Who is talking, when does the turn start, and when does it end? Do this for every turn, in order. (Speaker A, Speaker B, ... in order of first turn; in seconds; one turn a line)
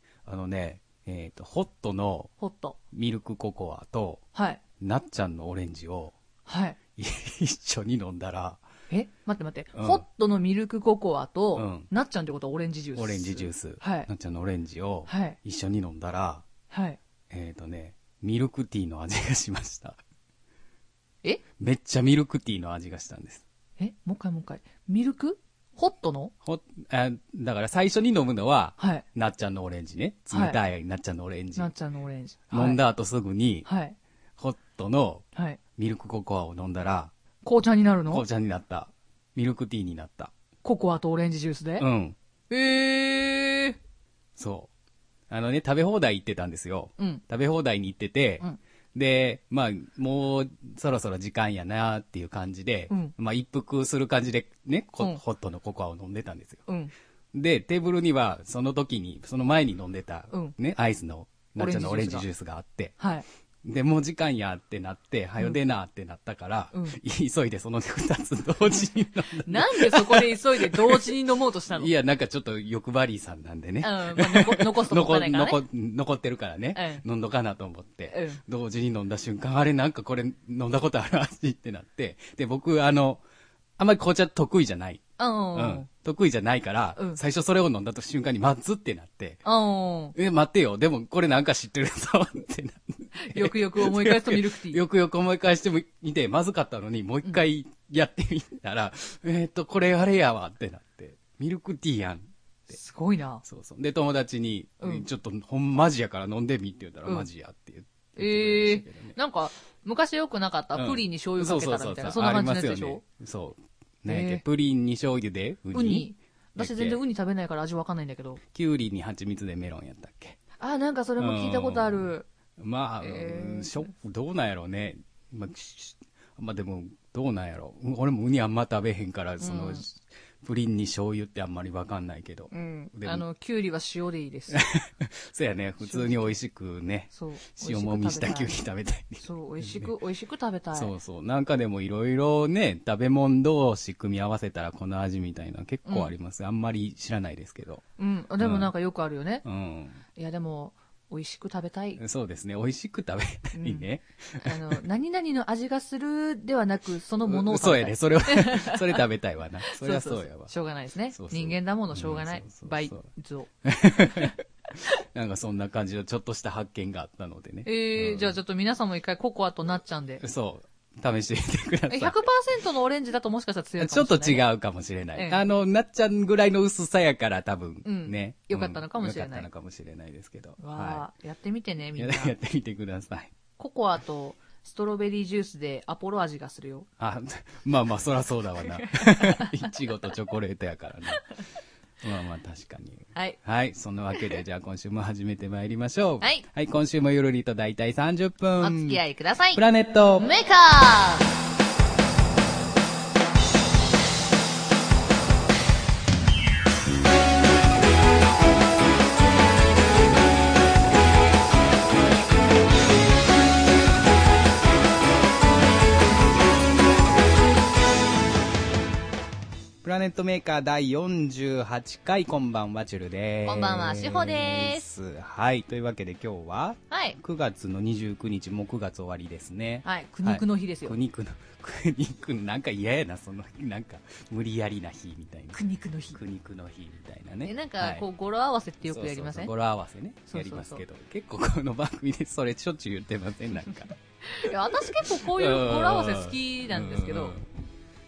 Speaker A: 0.2-2.3
Speaker B: 2.4-2.8
Speaker A: 2.9-4.2
Speaker B: 4.3-4.6
Speaker A: 4.8-6.2
Speaker B: 6.5-6.8
Speaker A: 7.0-8.6
Speaker B: 8.9-14.1
Speaker A: 9.7-10.0
Speaker A: 11.5-11.9
Speaker A: 12.9-16.4
Speaker B: 15.1-15.4
Speaker B: 16.7-17.0
Speaker A: 17.3-20.0
Speaker A: 21.6-23.4
Speaker B: 23.8-26.3
Speaker A: 26.4-31.7
Speaker B: 28.8-29.0
Speaker B: 30.3-30.6
Speaker B: 31.6-32.8
Speaker A: 32.5-33.7
Speaker B: 33.6-34.0
Speaker A: 34.4-35.2
Speaker B: 35.3-35.6
Speaker A: 35.8-37.1
Speaker B: 37.4-38.2
Speaker A: 38.1-40.3
Speaker B: 40.6-41.9
Speaker A: 41.8-42.2
Speaker B: 42.5-43.8
Speaker A: 44.4-44.7
Speaker A: 45.3-56.6
Speaker B: 56.7-56.9
Speaker A: 57.3-63.0
Speaker B: 61.6-62.2
Speaker B: 63.0-63.3
Speaker A: 63.6-71.1
Speaker B: 66.7-67.0
Speaker B: 69.2-71.9
Speaker A: 71.7-83.2
Speaker B: 73.8-75.6
Speaker B: 76.7-77.0
Speaker B: 78.1-78.4
Speaker A: 83.8-89.4
Speaker B: 85.2-85.9
Speaker B: 87.0-87.2
Speaker B: 89.4-90.2
Speaker A: 90.1-102.7
Speaker B: 93.2-94.8
Speaker B: 102.7-103.4
Speaker A: 103.4-109.2
Speaker B: 108.2-113.0
Speaker A: 110.7-117.0
Speaker B: 114.0-114.4
Speaker B: 115.7-118.4
Speaker A: 118.5-120.4
Speaker B: 120.6-122.3
Speaker A: 121.2-133.2
Speaker B: 123.0-123.9
Speaker B: 129.4-129.8
Speaker B: 132.5-134.6
Speaker A: 134.5-139.9
Speaker B: 135.8-136.3
Speaker B: 137.1-138.5
Speaker B: 139.2-140.9
Speaker A: 140.7-147.8
Speaker B: 145.9-146.1
Speaker B: 148.0-149.4
Speaker A: 148.4-148.7
Speaker A: 149.4-150.0
Speaker B: 150.1-152.0
Speaker A: 152.0-154.8
Speaker B: 153.5-159.0
Speaker A: 157.2-160.5
Speaker B: 159.7-164.3
Speaker A: 161.1-163.1
Speaker A: 163.6-168.4
Speaker B: 167.7-170.2
Speaker A: 170.2-172.2
Speaker B: 171.9-174.5
Speaker A: 173.8-181.0
Speaker B: 175.1-175.4
Speaker B: 177.8-179.5
Speaker B: 180.6-182.3
Speaker A: 181.9-183.3
Speaker B: 183.6-186.9
Speaker A: 187.0-191.3
Speaker B: 188.6-189.7
Speaker A: 192.0-199.0
Speaker B: 198.6-199.6
Speaker A: 199.5-200.3
Speaker B: 200.2-201.3
Speaker A: 219.8-235.6
Speaker B: 223.4-224.8
Speaker B: 226.9-227.2
Speaker B: 229.8-231.0
Speaker B: 235.5-236.2
Speaker A: 236.1-238.0
Speaker B: 237.4-239.5
Speaker A: 238.8-247.5
Speaker B: 240.3-240.8
Speaker B: 244.2-247.3